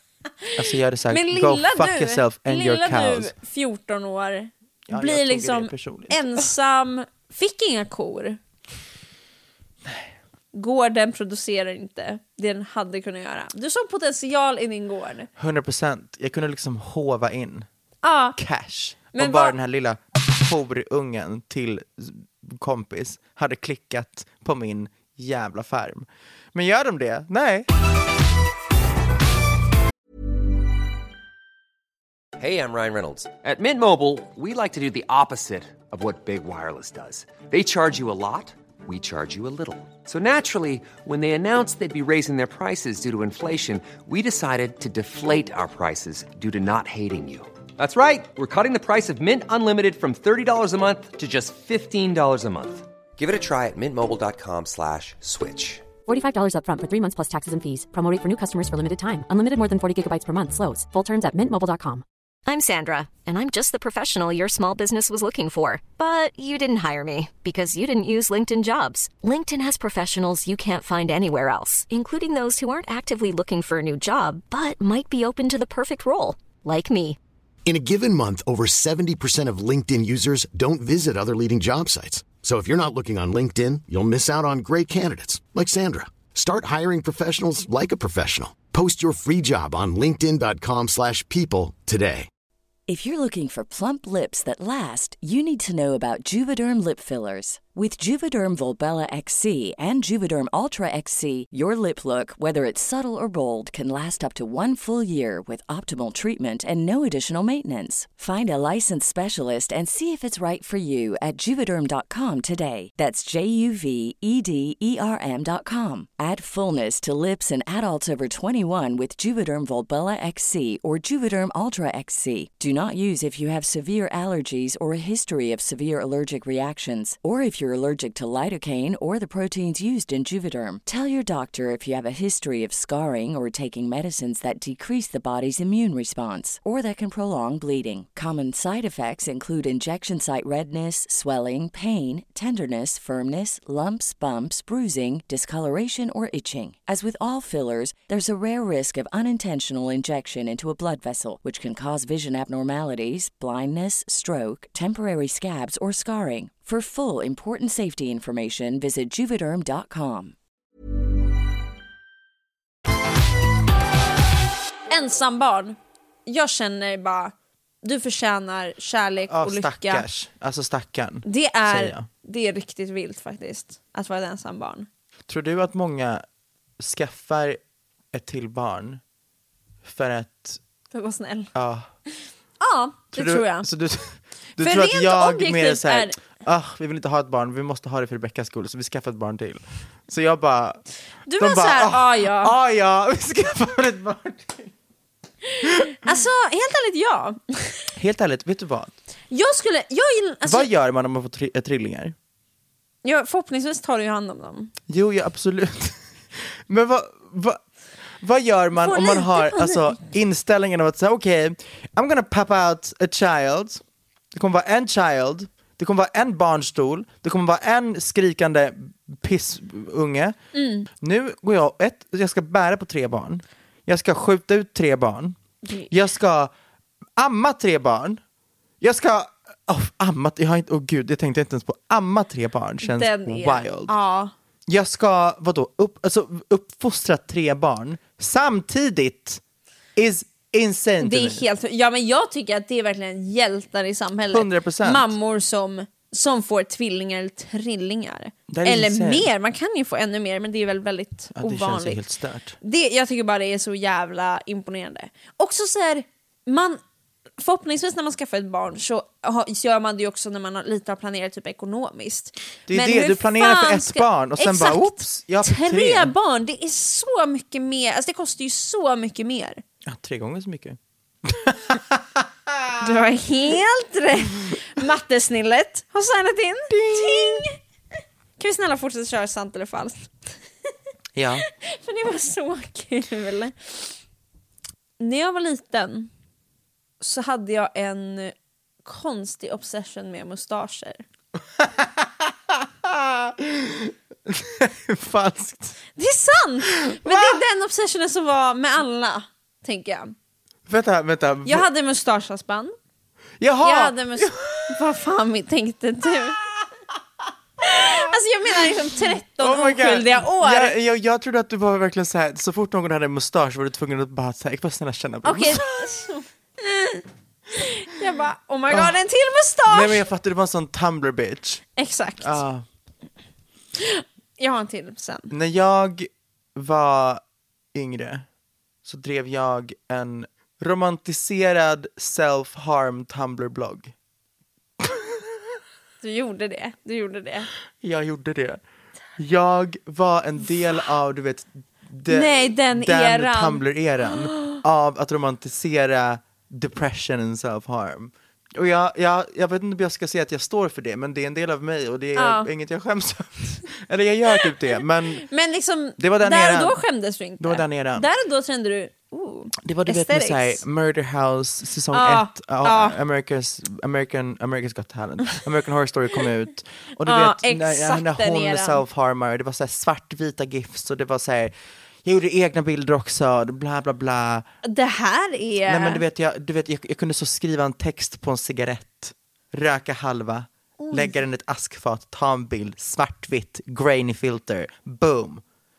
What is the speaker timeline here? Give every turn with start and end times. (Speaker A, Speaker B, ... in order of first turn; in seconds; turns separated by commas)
Speaker A: 0.6-3.3, Speaker B: 1.1-8.4, Speaker A: 4.9-6.5, Speaker A: 9.8-10.1, Speaker B: 10.5-15.3, Speaker A: 15.4-17.7, Speaker B: 18.0-18.4, Speaker A: 18.4-27.7, Speaker B: 19.1-19.6, Speaker C: 32.4-55.9, Speaker D: 56.1-62.0, Speaker E: 62.5-77.2, Speaker F: 77.7-92.3, Speaker G: 92.9-160.3, Speaker B: 164.9-170.1, Speaker A: 169.3-172.1, Speaker B: 171.2-174.9, Speaker A: 175.3-176.2, Speaker A: 176.8-177.6, Speaker A: 178.1-179.0, Speaker A: 179.8-180.6, Speaker B: 180.9-181.5, Speaker A: 181.5-181.9, Speaker B: 182.6-183.7, Speaker A: 183.1-190.8, Speaker B: 184.6-186.2, Speaker B: 191.3-192.6, Speaker A: 191.4-194.7, Speaker B: 195.6-197.8, Speaker A: 198.0-198.9, Speaker B: 199.3-200.7, Speaker A: 200.4-202.2, Speaker B: 203.0-204.7, Speaker A: 204.9-207.6, Speaker A: 208.2-213.8, Speaker B: 208.8-209.9, Speaker A: 214.3-220.4, Speaker B: 220.5-220.9, Speaker A: 220.9-225.4, Speaker B: 225.7-225.9, Speaker A: 225.9-226.5, Speaker A: 227.2-228.2, Speaker A: 228.8-233.9, Speaker B: 232.8-234.3, Speaker A: 234.7-239.4, Speaker A: 240.0-241.4, Speaker B: 241.0-252.0, Speaker A: 244.3-245.1, Speaker A: 248.5-249.3, Speaker A: 251.3-252.6, Speaker B: 252.6-256.8, Speaker B: 257.4-269.6, Speaker A: 262.7-266.1, Speaker A: 269.9-272.9, Speaker B: 272.8-277.6, Speaker A: 276.7-277.4, Speaker B: 278.4-280.3, Speaker A: 281.1-281.4, Speaker B: 281.5-283.9, Speaker B: 285.0-286.1, Speaker B: 287.0-291.0, Speaker A: 291.6-295.8, Speaker B: 296.0-300.1, Speaker A: 296.7-297.4, Speaker A: 300.7-301.7, Speaker B: 301.4-302.7, Speaker A: 303.4-304.8, Speaker B: 303.6-306.4, Speaker B: 307.6-310.8, Speaker A: 307.6-308.7, Speaker A: 309.4-315.8, Speaker B: 315.2-320.0, Speaker A: 318.7-319.0, Speaker A: 319.7-321.6, Speaker B: 321.8-322.4, Speaker A: 322.2-322.6, Speaker B: 323.8-325.3, Speaker A: 325.3-327.2, Speaker A: 327.7-328.3, Speaker A: 328.9-333.9, Speaker A: 334.8-335.3, Speaker B: 336.0-337.5, Speaker A: 337.8-338.6, Speaker A: 339.2-355.3, Speaker B: 342.1-343.6, Speaker B: 344.3-344.6, Speaker B: 352.2-352.5, Speaker B: 355.2-360.6, Speaker A: 356.0-356.8, Speaker A: 357.4-358.1, Speaker A: 359.6-371.5, Speaker B: 361.9-363.0, Speaker B: 367.0-368.8, Speaker A: 372.0-374.5, Speaker B: 374.6-376.0, Speaker A: 375.7-385.4, Speaker B: 380.8-381.2